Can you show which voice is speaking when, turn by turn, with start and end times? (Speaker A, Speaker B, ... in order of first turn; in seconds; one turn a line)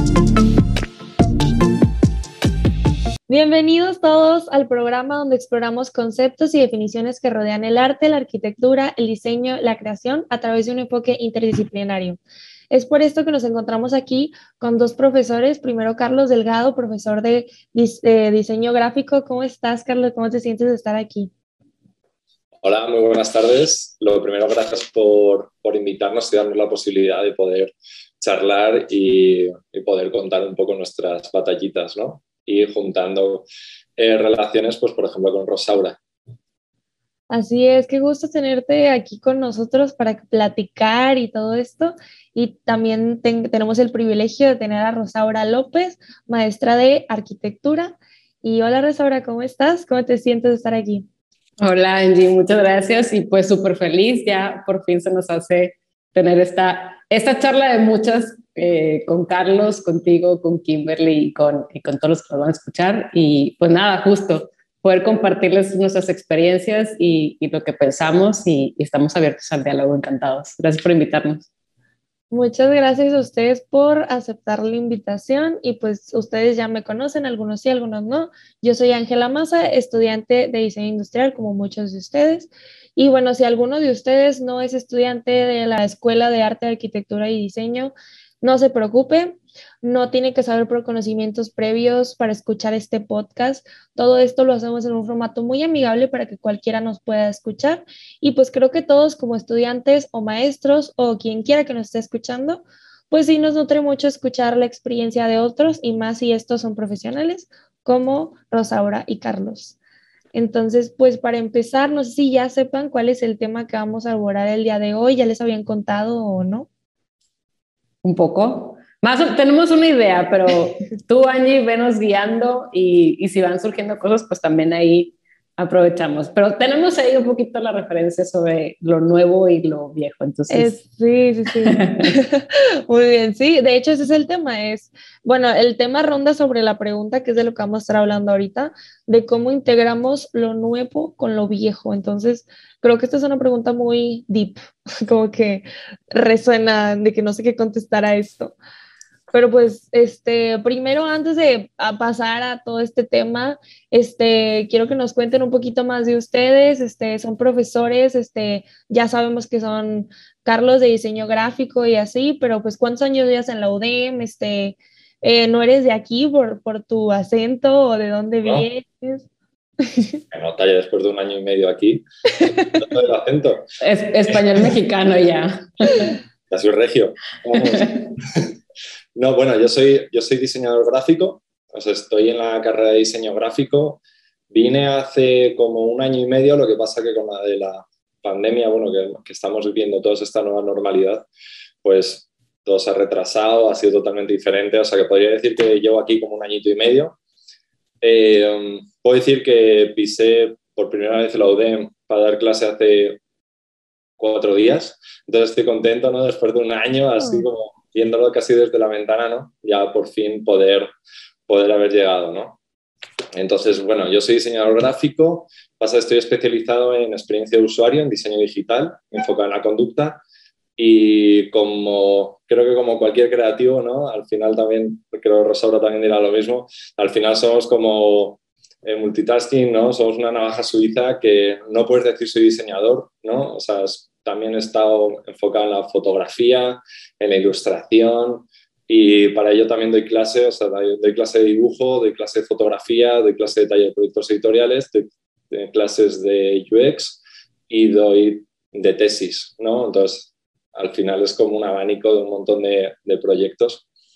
Speaker A: 3.3-21.3
Speaker B: 22.6-36.0
Speaker A: 37.3-51.1
Speaker C: 51.6-71.5
Speaker A: 72.3-109.8
Speaker A: 110.3-116.7
Speaker C: 118.0-130.8
Speaker A: 130.5-148.6
Speaker C: 131.7-132.1
Speaker A: 149.3-169.2
Speaker A: 169.8-170.2
Speaker B: 170.3-172.0
Speaker B: 172.7-173.7
Speaker C: 173.8-176.1
Speaker B: 176.5-178.5
Speaker C: 177.6-178.1
Speaker B: 179.1-191.2
Speaker B: 191.8-197.2
Speaker B: 198.0-203.2
Speaker B: 204.2-210.9
Speaker B: 211.5-212.6
Speaker B: 213.3-220.2
Speaker B: 220.8-253.8